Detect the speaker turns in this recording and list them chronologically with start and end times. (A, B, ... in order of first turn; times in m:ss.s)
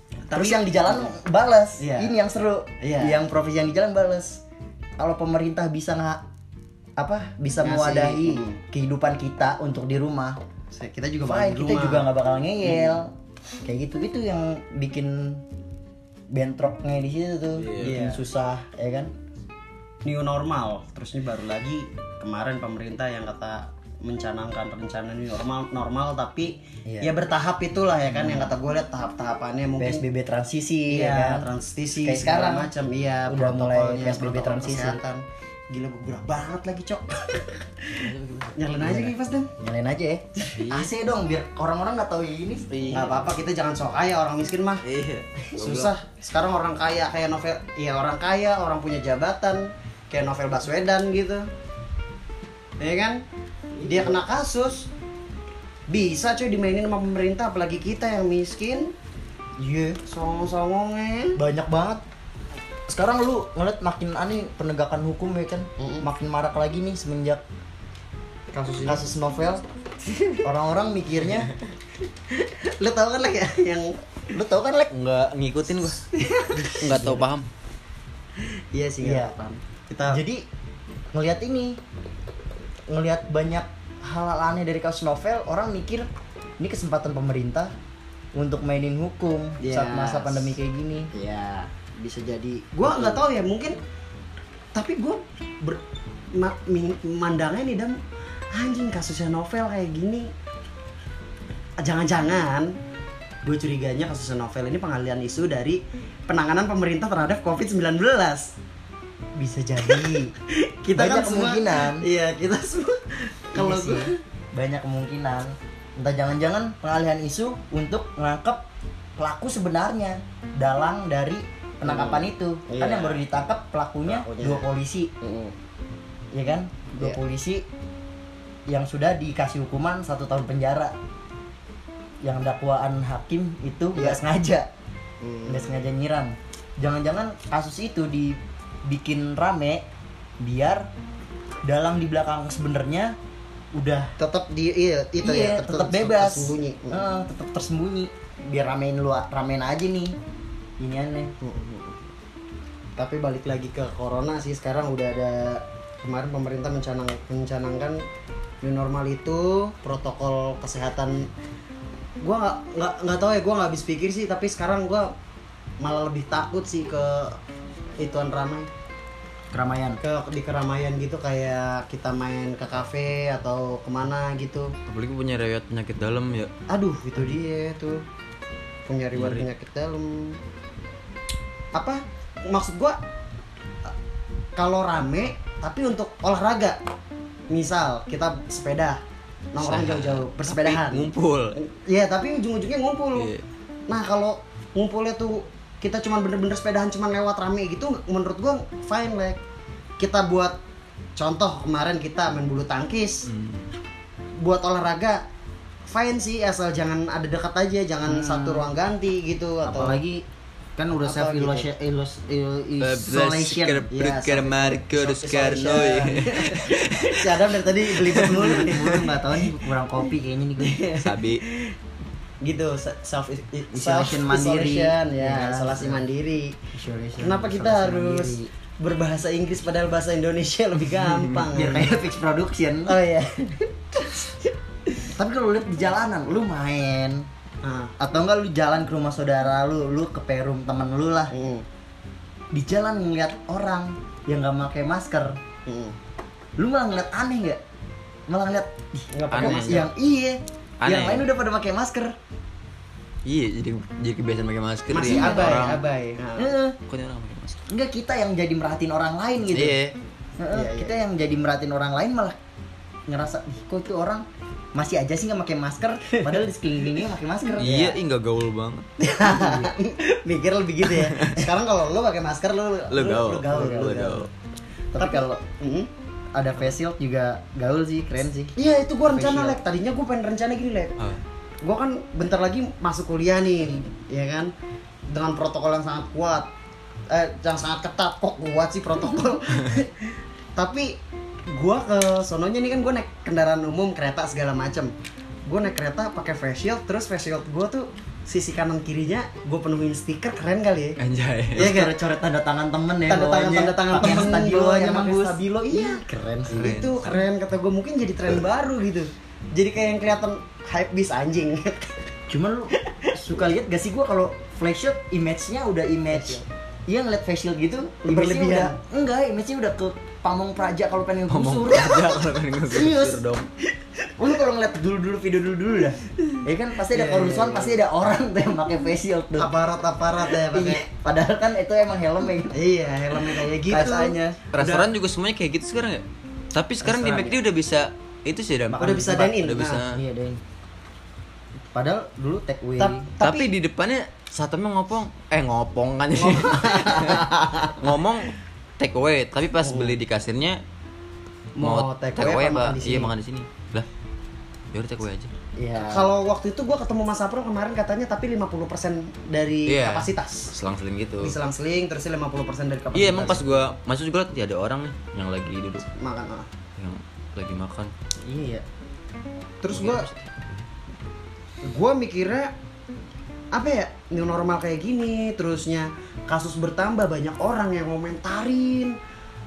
0:00.3-0:01.2 A
0:00.3-0:04.4 B
0:01.8-0:02.1 A
0:02.8-0:03.2 A
0:05.0-0:06.2 B
0:07.0-0:10.4 B
0:07.6-0:08.6 A
0:10.7-0:12.1 A
0:11.2-0:13.1 B
0:12.6-0:13.0 A
0:13.6-0:15.4 B
0:16.3-0:19.1 B
0:17.6-0:18.0 C
0:17.8-0:18.2 A
0:20.0-0:30.0 A
0:26.9-0:27.1 B
0:28.2-0:28.5 B
0:29.8-0:31.5 B
0:30.9-0:39.5 A
0:32.0-0:32.7 B
0:33.3-0:35.0 B
0:38.0-0:38.7 C
0:38.8-0:42.7 B
0:40.6-0:40.9 C
0:42.7-0:43.3 C
0:42.9-0:44.8 A
0:44.8-0:45.9 C
0:45.5-0:51.5 A
0:52.8-0:53.2 A
0:53.8-0:54.2 B
0:53.8-0:54.9 A
0:55.9-0:58.9 A
0:59.6-1:00.0 B
1:00.0-1:01.4 A
1:01.4-1:02.0 B
1:02.9-1:07.4 B
1:05.8-1:06.1 A
1:08.5-1:09.1 A
1:08.8-1:09.6 B
1:10.4-1:11.5 B
1:12.3-1:14.0 A
1:14.3-1:14.9 B
1:14.9-1:16.1 C
1:16.2-1:17.2 A
1:16.7-1:17.5 C
1:16.9-1:17.2 B
1:18.7-1:20.2 A
1:19.0-1:19.3 B
1:20.1-1:20.4 B
1:21.1-1:21.8 B
1:22.9-1:27.7 B
1:28.4-1:31.1 B
1:29.6-1:30.6 A
1:31.1-1:33.8 A
1:32.8-1:33.2 B
1:34.8-1:35.8 A
1:36.3-1:38.0 A
1:38.5-1:40.3 A
1:41.8-1:42.8 A
1:43.4-1:48.5 A
1:49.4-1:50.3 B
1:49.8-1:54.2 A
1:51.0-1:52.0 B
1:53.6-1:58.6 B
1:59.2-2:05.1 B
2:01.8-2:03.3 A
2:04.1-2:04.7 A
2:05.2-2:05.6 A
2:06.3-2:07.7 B
2:08.7-2:11.0 B
2:12.2-2:14.7 B
2:14.0-2:14.2 A
2:15.2-2:15.8 A
2:15.5-2:19.9 B
2:20.4-2:20.9 B
2:21.6-2:23.2 B
2:23.7-2:24.1 B
2:24.2-2:27.1 A
2:25.2-2:30.2 B
2:30.8-2:31.3 B
2:31.4-2:32.0 A
2:33.0-2:38.0 A
2:38.6-2:41.3 A
2:42.2-2:45.1 A
2:45.8-2:47.4 A
2:48.0-2:48.7 A
2:49.5-2:50.0 B
2:50.0-2:54.7 A
2:54.9-2:56.5 C
2:56.7-2:58.0 A
2:58.9-3:00.4 A
2:59.2-2:59.5 C
3:01.7-3:03.0 A
3:04.6-3:06.8 A
3:07.5-3:09.0 A
3:09.5-3:13.3 A
3:09.6-3:11.6 C
3:13.2-3:13.4 C
3:13.9-3:19.4 A
3:20.0-3:20.6 A
3:21.2-3:23.3 A
3:23.3-3:23.7 C
3:24.4-3:25.2 A
3:25.9-3:30.0 A
3:28.1-3:28.7 B
3:29.6-3:30.2 B
3:30.8-3:33.9 B
3:31.0-3:31.7 A
3:32.8-3:37.4 C
3:33.9-3:39.1 A
3:38.0-3:39.0 C
3:38.1-3:40.8 B
3:40.6-3:41.7 A
3:41.0-3:41.4 C
3:42.4-3:46.6 A
3:43.7-3:46.0 B
3:46.7-3:48.5 B
3:47.2-3:51.9 A
3:51.5-3:53.0 B
3:52.9-3:54.2 A
3:55.1-3:57.3 B
3:57.6-3:58.0 A
3:58.0-4:01.3 B
4:01.3-4:01.7 A
4:02.5-4:05.4 B
4:05.7-4:06.0 A
4:06.6-4:07.6 B
4:08.3-4:12.2 B
4:09.1-4:09.8 A
4:09.3-4:09.9 C
4:10.8-4:11.3 C
4:13.2-4:15.8 C
4:14.9-4:16.5 A
4:15.0-4:15.6 B
4:16.4-4:16.8 B
4:16.9-4:17.6 C
4:17.7-4:19.8 B
4:19.5-4:20.0 C
4:20.4-4:22.4 B
4:20.5-4:21.0 A
4:23.1-4:28.0 B
4:27.6-4:28.9 C
4:29.0-4:34.2 A
4:29.3-4:29.7 B
4:30.9-4:31.5 C
4:32.9-4:34.3 C
4:33.5-4:34.2 B
4:34.9-4:35.4 B
4:35.0-4:35.9 A
4:36.3-4:38.5 B
4:38.6-4:41.0 A
4:39.1-4:39.6 B
4:41.6-4:44.5 A
4:45.1-4:46.5 A
4:47.1-4:54.9 A
4:55.5-5:01.0 A
5:01.0-5:01.7 C
5:01.6-5:02.0 A
5:01.6-5:06.7 B
5:03.1-5:12.0 A
5:06.5-5:07.3 C
5:12.3-5:23.2 B
5:12.8-5:13.2 A
5:16.1-5:16.4 A
5:18.0-5:18.8 A
5:21.3-5:23.5 C
5:24.2-5:29.5 B
5:26.9-5:27.8 A
5:29.4-5:30.8 A
5:30.3-5:32.6 B
5:32.5-5:34.9 A
5:33.5-5:34.4 B
5:34.5-5:40.0 C
5:36.8-5:37.4 A
5:38.7-5:39.2 B
5:38.8-5:39.8 A
5:39.9-5:40.4 B
5:41.7-5:43.1 B
5:42.8-5:43.5 A
5:43.2-5:50.6 C
5:46.2-5:47.8 A
5:49.6-5:50.0 A
5:51.6-5:53.1 A
5:51.6-5:53.9 C
5:54.7-5:55.3 C
5:55.6-5:56.1 B
5:55.8-6:00.5 A
5:59.7-6:01.4 C
6:01.2-6:03.5 A
6:02.9-6:05.9 C
6:05.9-6:06.5 A
6:06.8-6:07.9 C
6:08.2-6:08.6 B
6:09.6-6:10.1 A
6:09.7-6:10.2 C
6:11.6-6:12.5 A
6:13.5-6:19.0 A